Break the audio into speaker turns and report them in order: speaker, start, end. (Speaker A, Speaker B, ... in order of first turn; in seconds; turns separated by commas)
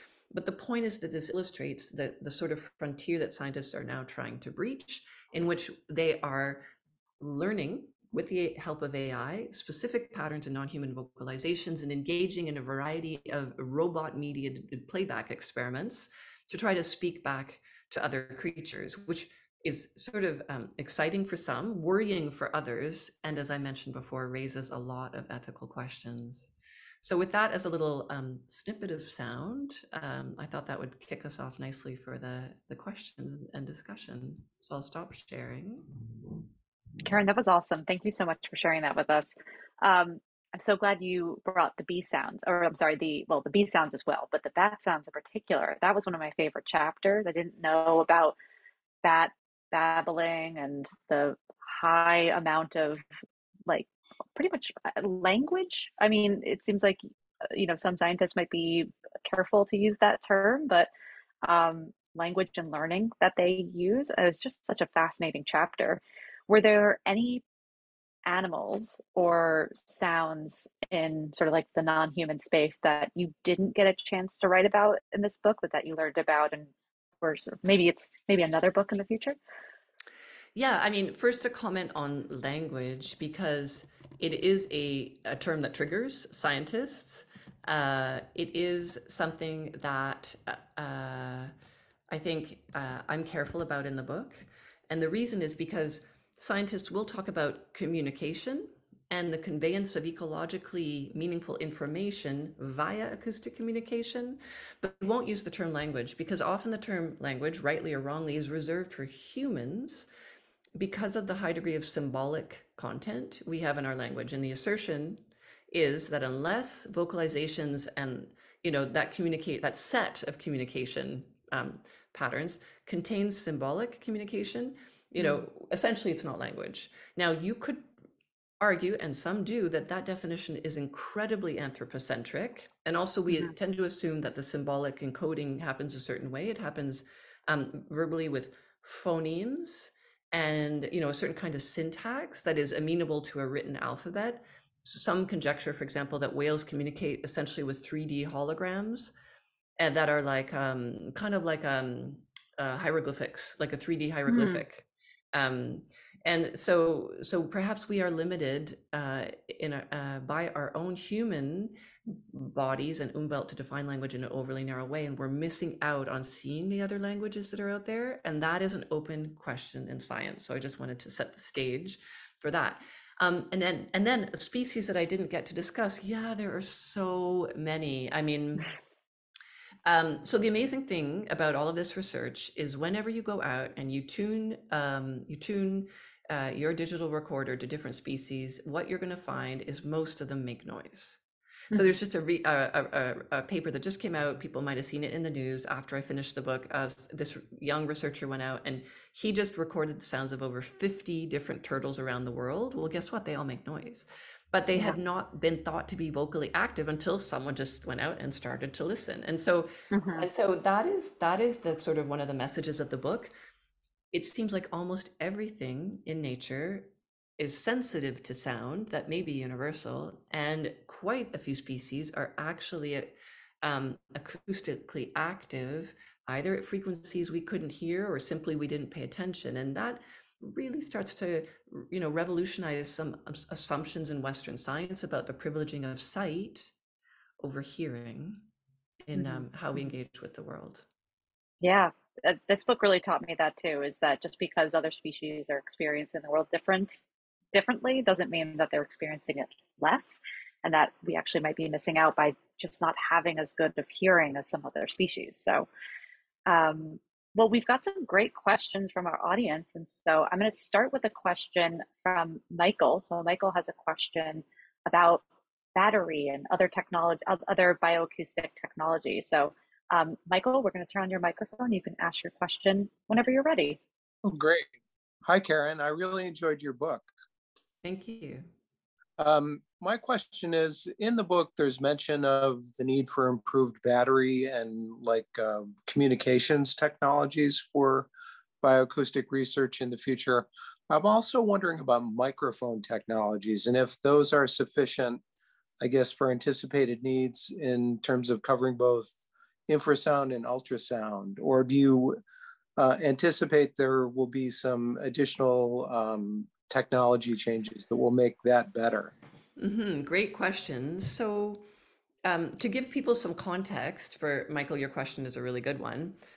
Speaker A: 0.3-6.6, Speaker A: 7.2-26.5, Speaker A: 27.0-35.9, Speaker B: 37.0-48.4, Speaker B: 49.0-53.0, Speaker B: 53.7-60.9, Speaker B: 61.4-67.4, Speaker B: 68.2-79.4, Speaker A: 80.5-91.5, Speaker A: 92.1-110.1, Speaker A: 110.8-127.9, Speaker A: 128.6-149.1, Speaker A: 149.8-178.8, Speaker B: 154.3-154.6, Speaker A: 179.8-191.2, Speaker A: 191.7-213.3, Speaker B: 204.7-205.0, Speaker B: 209.9-210.3, Speaker A: 214.1-236.7, Speaker A: 237.4-238.4, Speaker A: 239.0-240.8, Speaker B: 239.2-239.5, Speaker B: 241.6-247.0, Speaker B: 247.5-255.7, Speaker B: 256.5-265.2, Speaker B: 265.8-273.8, Speaker C: 274.2-274.7, Speaker C: 275.2-277.1, Speaker A: 277.8-278.5, Speaker C: 279.2-288.1, Speaker C: 288.6-295.2, Speaker C: 295.8-299.1, Speaker C: 299.7-302.2, Speaker C: 302.8-309.1, Speaker A: 309.6-311.6, Speaker A: 312.2-316.2